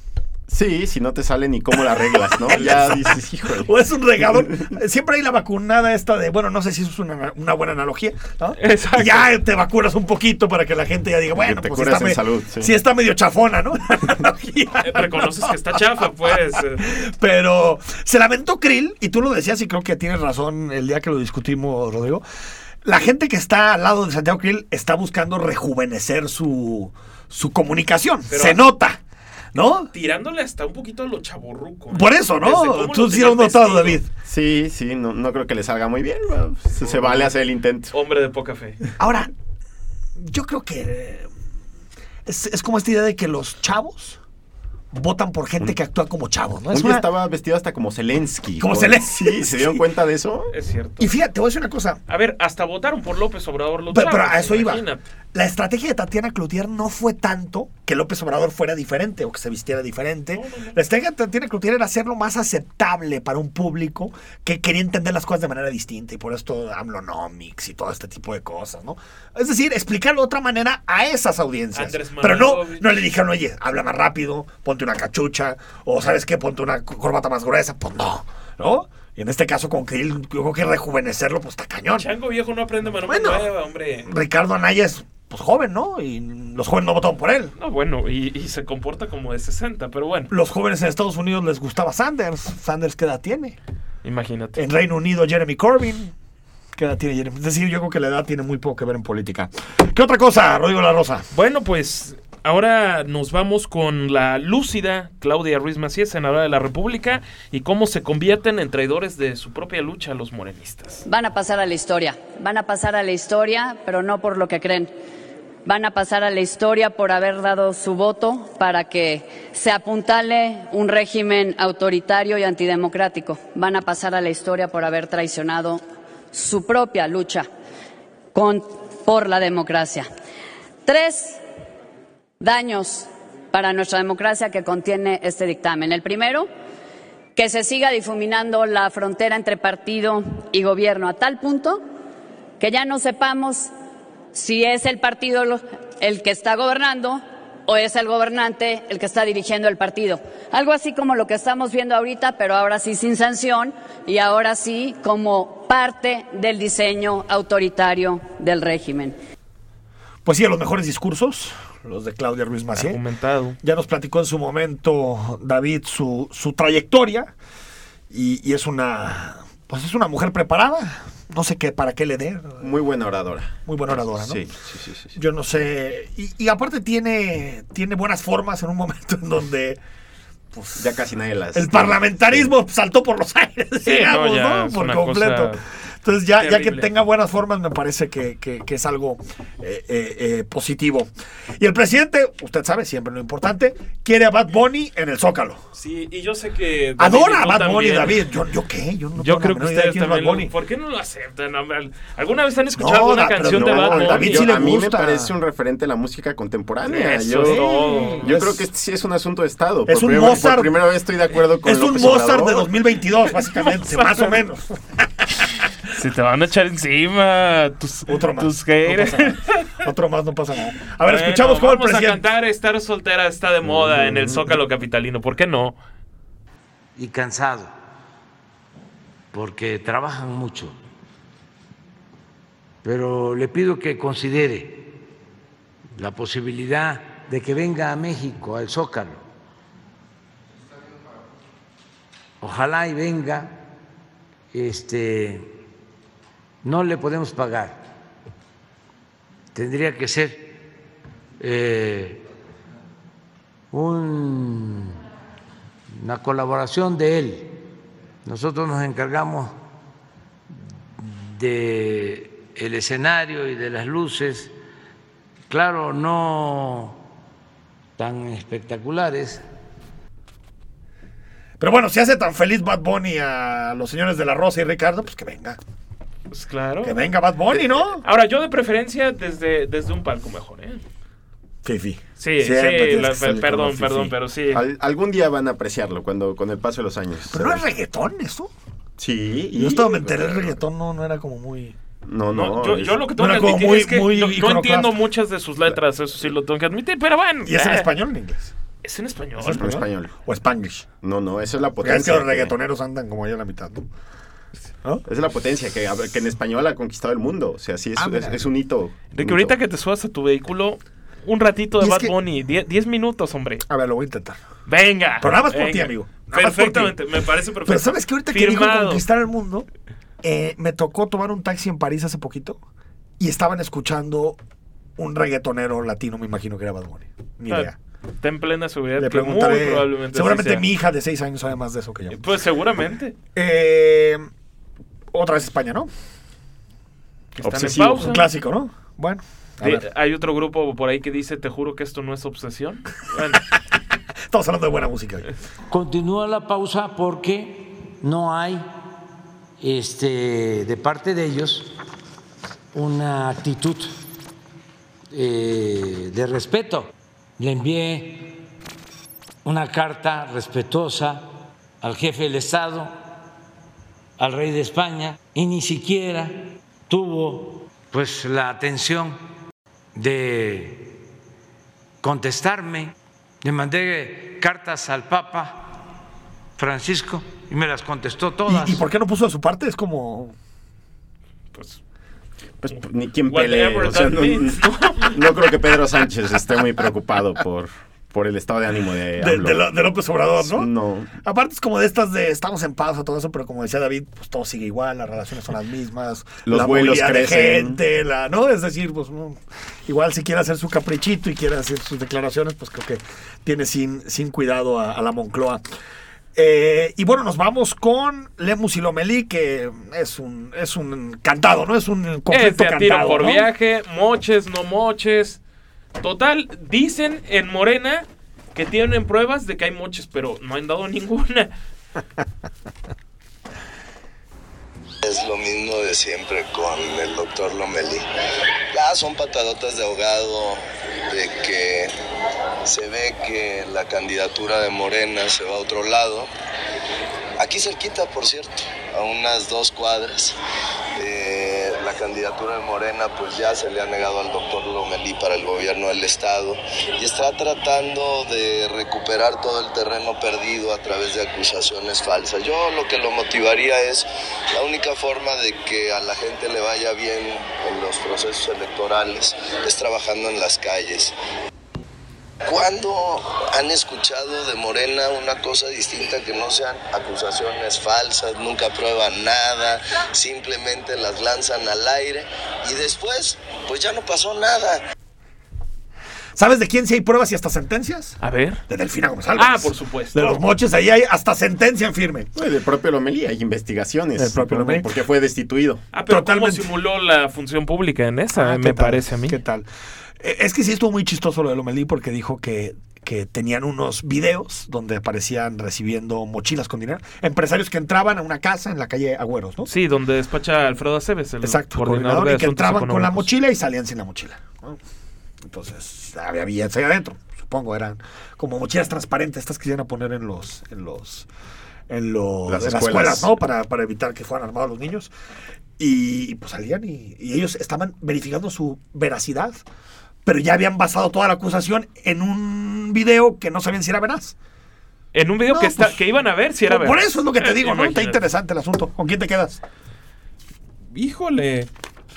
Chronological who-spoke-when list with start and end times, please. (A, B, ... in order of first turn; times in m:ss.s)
0:00.5-0:03.7 A
0:02.2-0:15.8 B
0:08.6-0:09.3 C
0:11.4-0:12.7 A
0:14.8-0:16.9 C
0:16.5-0:22.2 B
0:22.8-0:29.0 B
0:28.3-0:28.6 C
0:29.5-0:29.9 B
0:29.9-0:34.0 C
0:31.9-0:34.1 B
0:34.2-0:37.9 A
0:37.0-0:37.3 C
0:37.9-0:38.8 C
0:39.0-0:39.3 B
0:40.2-0:41.3 B
0:42.2-0:44.2 B
0:44.9-0:47.1 B
0:46.7-0:50.5 A
0:48.6-0:49.9 B
0:50.5-0:51.1 C
0:51.0-0:52.0 B
0:52.1-0:55.0 C
0:53.9-0:54.8 B
0:55.3-1:22.1 B
1:00.3-1:00.8 C
1:11.7-1:13.0 C
1:21.9-1:24.1 C
1:23.0-1:23.5 B
1:24.0-1:27.5 B
1:27.6-1:30.3 C
1:30.3-1:33.6 B
1:34.0-1:34.6 C
1:34.6-1:36.1 B
1:36.8-1:41.2 B
1:41.3-1:51.0 C
1:51.0-1:54.9 D
1:55.6-2:05.8 D
2:06.3-2:07.5 D
2:08.3-2:10.0 D
2:10.8-2:11.4 D
2:12.4-2:16.5 D
2:17.4-2:21.8 D
2:22.6-2:23.7 D
2:24.3-2:39.1 D
2:40.2-2:43.0 B
2:42.8-2:43.6 C
2:43.6-2:47.3 B
2:48.1-2:52.7 B
2:52.6-2:55.2 A
2:53.6-2:54.4 B
2:55.1-2:59.8 B
3:00.5-3:00.8 B
3:00.8-3:02.5 A
3:01.5-3:15.6 B
3:03.8-3:05.6 C
3:06.4-3:06.9 C
3:15.7-3:18.2 C
3:17.0-3:20.5 B
3:19.2-3:24.6 C
3:22.7-3:25.3 B
3:23.4-3:32.7 A
3:26.8-3:28.3 C
3:27.5-3:28.7 B
3:29.9-3:30.7 B
3:31.6-3:35.4 B
3:33.5-3:34.3 C
3:35.8-3:39.8 C
3:38.1-3:42.2 B
3:41.0-3:45.8 C
3:47.0-3:47.7 E
3:49.3-3:50.8 E
3:52.8-3:54.9 E
3:56.0-3:59.2 E
4:02.4-4:03.6 E
4:04.5-4:05.5 E
4:06.6-4:07.8 E
4:09.5-4:10.5 E
4:11.4-4:12.2 E
4:13.7-4:15.0 E
4:15.9-4:17.6 E
4:18.2-4:19.6 E
4:21.0-4:24.5 E
4:25.5-4:27.0 E
4:28.0-4:29.4 E
4:31.6-4:35.6 B
4:36.3-4:37.0 C
4:36.8-4:38.0 B
4:37.5-4:40.8 C
4:41.6-4:44.0 B
4:42.2-4:44.6 C
4:43.9-4:47.7 A
4:47.3-4:48.5 B
4:49.0-4:50.6 A
4:49.5-4:51.8 B
4:52.0-4:53.0 A
4:52.3-4:57.9 C
4:53.2-4:55.0 B
4:57.4-4:58.5 B
4:58.8-4:59.6 C
4:59.4-5:00.8 B
4:59.5-5:00.2 A
5:01.0-5:02.5 A
5:01.8-5:03.8 B
5:05.0-5:09.6 A
5:08.0-5:08.4 B
5:09.1-5:13.6 C
5:11.8-5:12.1 B
5:13.7-5:14.4 B
5:14.7-5:19.0 C
5:15.2-5:16.9 B
5:17.6-5:19.7 B
5:20.2-5:22.6 B
5:23.2-5:24.4 B
5:25.0-5:27.8 B
5:27.5-5:30.6 C
5:29.0-5:32.2 B
5:32.1-5:33.2 C
5:33.3-5:34.2 B
5:35.1-5:35.9 B
5:37.3-5:38.3 C
5:37.4-5:38.1 A
5:38.0-5:39.8 B
5:39.6-5:43.4 C
5:44.3-5:45.3 B
5:45.7-5:48.6 E
5:49.6-5:51.7 E
5:52.7-5:53.9 E
5:55.1-5:58.3 E
5:59.4-6:02.9 E
6:04.2-6:09.2 E
6:09.9-6:10.8 E
6:12.0-6:15.7 E
6:16.6-6:18.8 E
6:18.5-6:20.3 B
6:21.5-6:21.8 C
6:22.6-6:29.6 A
6:22.7-6:25.3 C
6:29.2-6:30.7 B
6:30.4-6:31.1 A
6:31.2-6:45.6 B
6:36.4-6:37.8 A
6:46.3-6:53.5 B
6:52.3-6:55.4 C
6:56.0-7:01.5 C
7:05.0-7:08.0 F
7:08.7-7:11.9 F
7:12.7-7:16.3 F
7:17.4-7:20.3 F
7:21.0-7:34.0 F
7:34.6-7:41.1 F
7:42.5-7:54.8 F
7:56.4-7:58.2 B
7:58.2-7:58.6 C
7:58.7-8:02.3 B
7:59.3-8:00.4 C
8:02.3-8:05.8 A
8:04.2-8:04.9 B
8:05.9-8:09.4 C
8:06.1-8:06.7 B
8:08.3-8:09.7 B
8:10.2-8:19.7 B
8:19.6-8:23.3 C
8:21.4-8:24.8 B
8:25.5-8:31.3 B
8:31.9-8:35.1 B
8:32.5-8:33.3 A
8:35.8-8:39.6 B
8:40.2-8:44.3 B
8:45.1-8:48.2 C
8:45.5-8:46.0 B
8:46.6-8:49.6 B
8:50.9-8:51.7 C